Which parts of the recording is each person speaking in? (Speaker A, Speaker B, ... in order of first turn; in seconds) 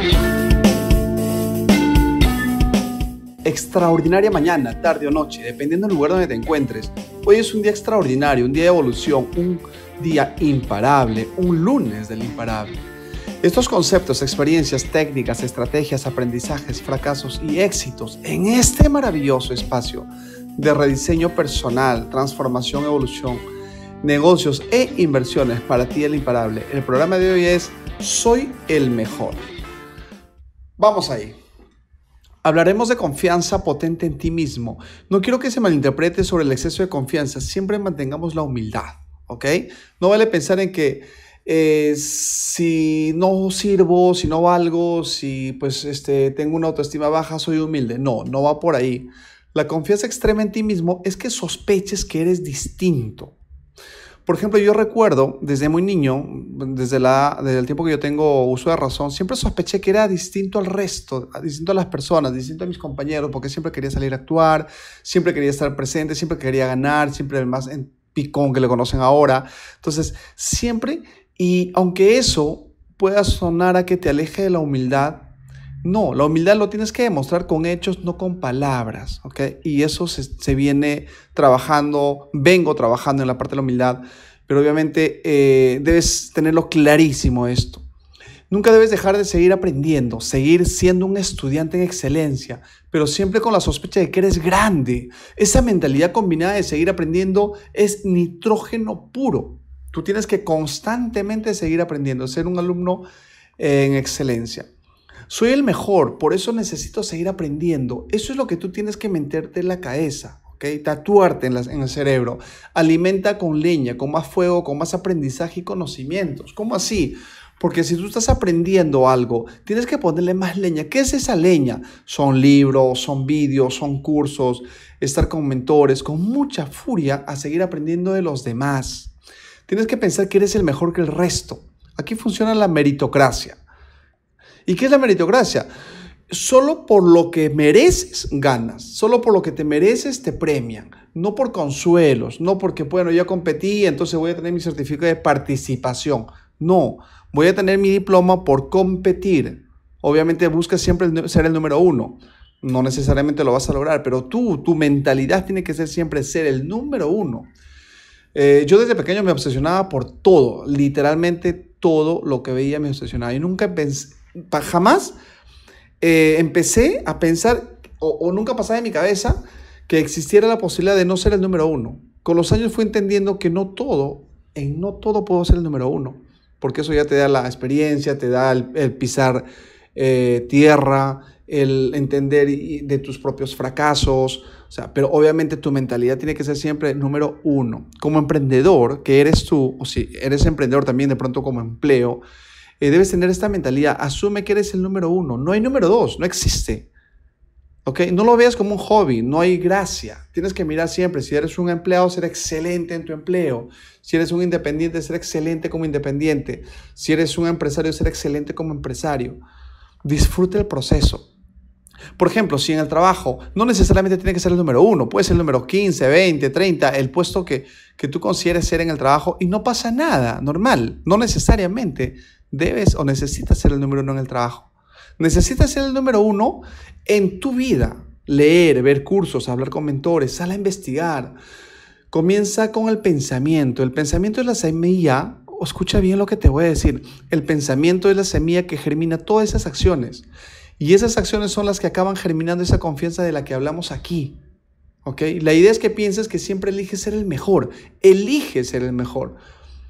Speaker A: 3.4-12.8, 13.4-23.4, 24.0-29.5, 30.8-31.4, 32.4-53.4, 54.2-75.3, 75.8-87.8, 88.5-103.0, 103.6-104.7, 105.3-129.1, 129.7-133.6, 134.7-135.7, 136.3-157.5, 158.3-165.1, 166.0-192.2, 192.8-196.9, 197.8-209.4, 210.0-211.3, 212.2-231.3, 232.1-240.2, 240.8-244.3, 245.0-249.4